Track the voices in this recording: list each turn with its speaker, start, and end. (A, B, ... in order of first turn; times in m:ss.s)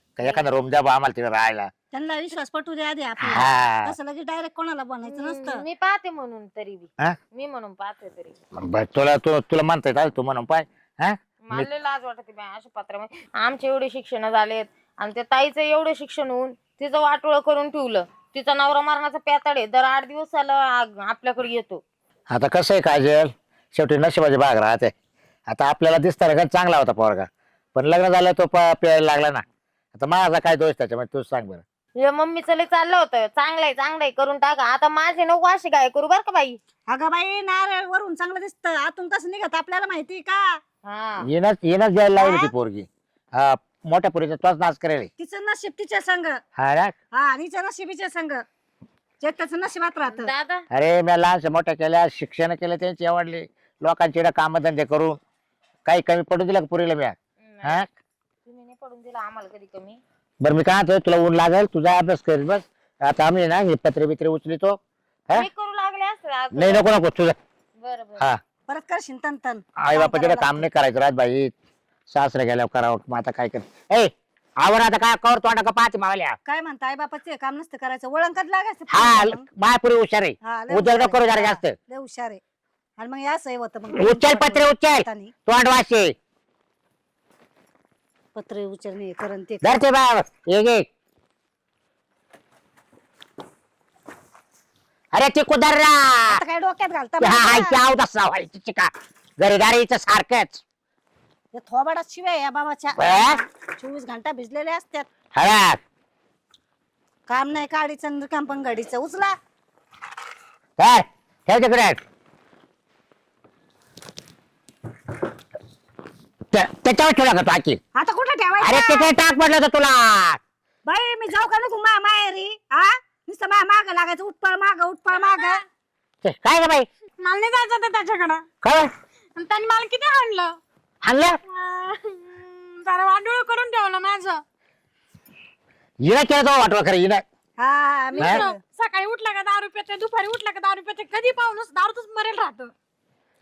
0:00.2-0:01.7 A
0:01.9-0:05.6 B
0:03.2-0:04.0 A
0:05.1-0:08.4 C
0:08.6-0:11.7 A
0:11.4-0:21.8 C
0:22.3-0:24.9 A
0:25.5-0:29.4 A
0:30.0-0:31.6 A
0:32.0-0:36.6 C
0:36.9-0:40.6 B
0:40.8-0:41.3 C
0:41.2-0:45.1 A
0:42.2-0:42.5 B
0:45.2-0:46.4 B
0:46.6-0:46.9 A
0:47.1-0:48.4 B
0:49.2-0:50.3 B
0:50.1-0:50.6 C
0:50.7-0:55.2 A
0:55.8-0:57.9 A
0:57.4-0:57.9 C
0:58.5-1:00.0 C
1:00.4-1:04.8 A
1:05.3-1:06.9 C
1:06.5-1:07.4 A
1:07.8-1:08.3 C
1:08.7-1:10.6 B
1:09.8-1:11.5 A
1:12.1-1:16.4 A
1:16.5-1:19.4 B
1:18.9-1:21.8 A
1:20.4-1:22.4 B
1:23.0-1:25.3 B
1:24.0-1:26.2 A
1:28.4-1:29.7 B
1:29.6-1:30.9 A
1:35.1-1:36.4 A
1:36.3-1:37.8 B
1:37.2-1:40.6 A
1:41.5-1:45.1 B
1:43.0-1:43.4 A
1:45.4-1:45.8 A
1:47.3-1:49.4 B
1:50.8-1:52.0 A
1:56.5-1:57.8 A
1:58.0-1:59.1 B
1:58.6-2:00.4 A
2:00.9-2:05.6 B
2:05.1-2:05.6 D
2:06.2-2:06.9 A
2:07.2-2:08.4 D
2:08.6-2:08.9 A
2:09.4-2:10.5 D
2:11.0-2:11.4 A
2:11.5-2:14.4 D
2:16.0-2:17.2 A
2:17.6-2:18.6 B
2:18.2-2:22.7 D